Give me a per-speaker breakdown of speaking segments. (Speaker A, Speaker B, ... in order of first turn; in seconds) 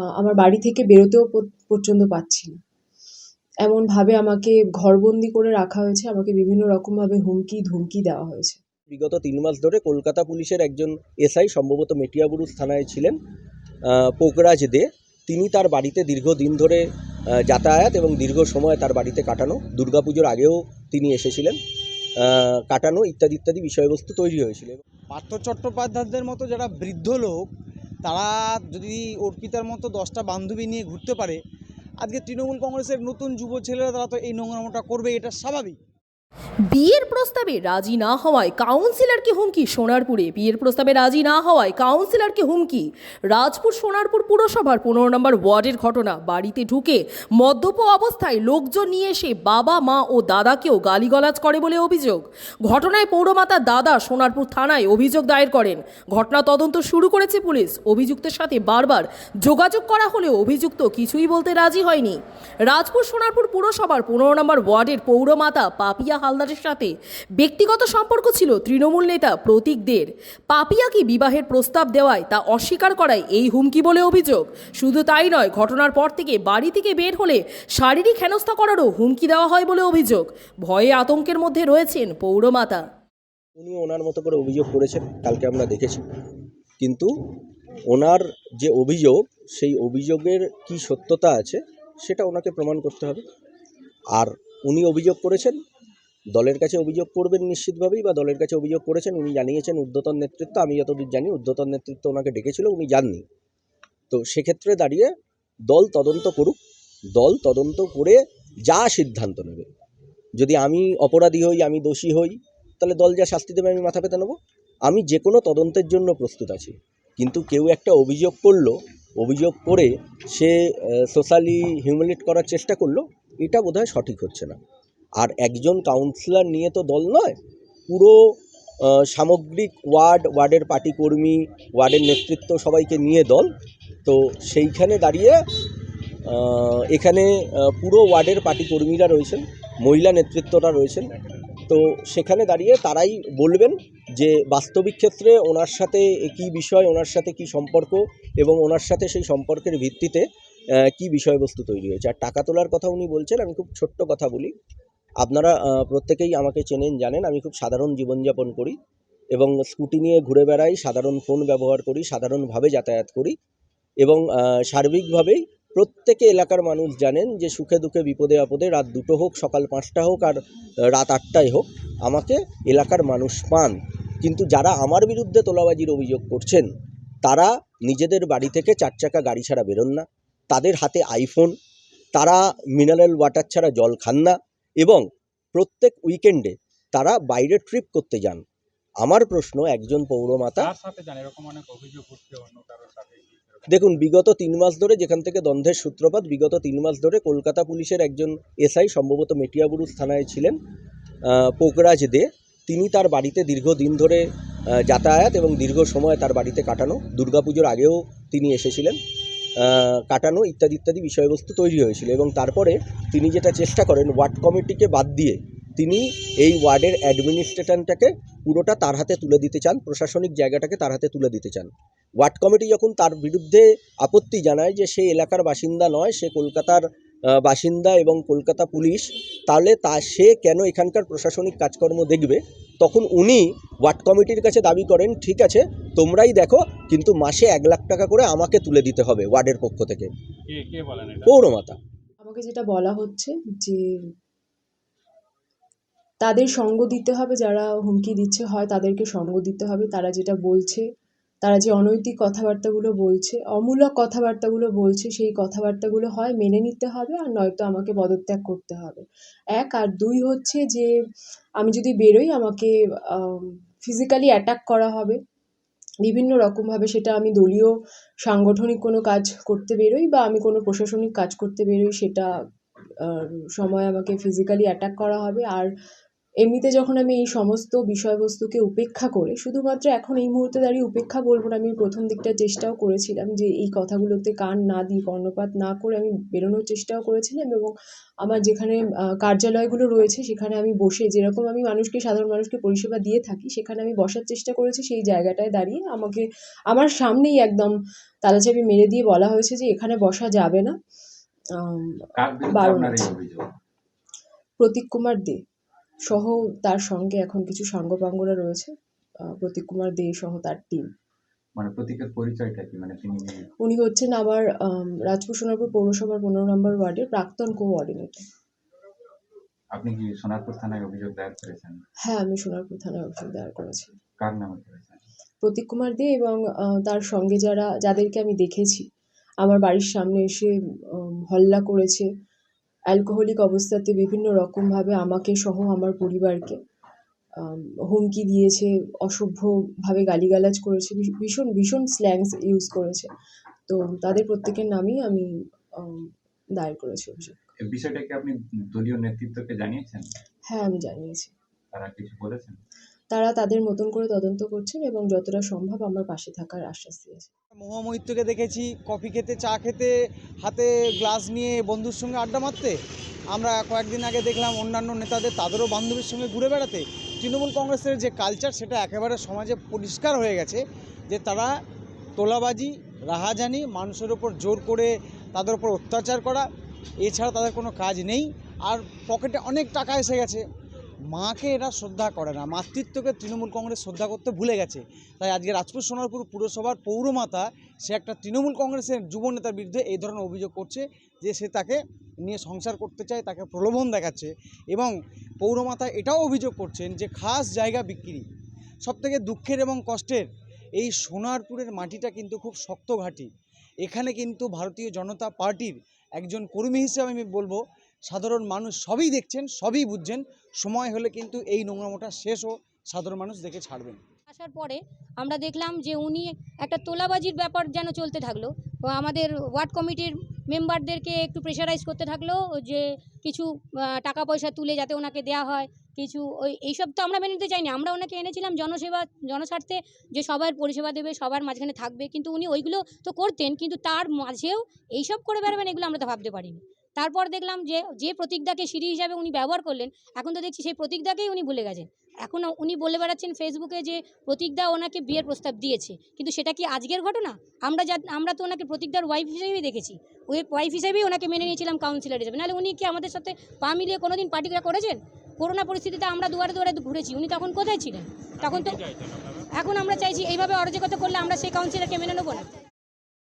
Speaker A: 0.1-2.6, 3.6-8.6, 242.2-243.9, 246.2-250.8, 251.4-259.0, 259.6-260.9, 261.6-265.2, 266.1-267.7, 268.2-272.3, 273.0-275.7, 276.4-300.7, 301.6-303.1, 304.6-305.4, 306.1-308.7, 309.3-310.9, 313.6-318.2, 322.1-323.9, 325.4-328.9, 329.4-332.1, 332.9-336.6, 337.4-343.1, 343.7-345.3, 345.8-347.4, 350.5-351.3, 353.1-357.3
Speaker B: 8.9-13.2, 13.9-21.6, 22.2-24.8, 83.6-86.0, 86.8-87.1, 87.9-93.2, 94.1-95.6, 96.3-103.2, 104.1-105.1, 105.7-106.6, 107.2-109.7, 110.4-114.3, 114.9-124.6, 125.2-127.4, 127.9-128.2, 128.8-133.5, 134.1-135.4, 136.3-141.1, 141.7-150.2, 150.8-154.5, 155.2-158.8, 159.3-163.3, 164.0-176.7, 177.2-181.5, 182.1-185.0, 185.6-188.4, 189.0-190.7, 193.7-200.6, 201.2-209.0, 209.6-240.1, 241.2-241.8
Speaker C: 25.1-27.5, 28.0-31.4, 32.0-35.8, 357.6-362.8, 363.3-371.5, 372.2-376.5, 377.0-380.4, 381.1-398.3, 398.8-403.3, 403.8-414.0
Speaker D: 36.7-82.8
Speaker E: 190.6-193.8, 240.5-241.4
Speaker F: 302.2-303.4, 311.6-313.4, 319.7-321.8, 324.2-325.0, 347.6-350.0, 351.7-352.6
Speaker G: 414.3-458.8, 459.6-462.5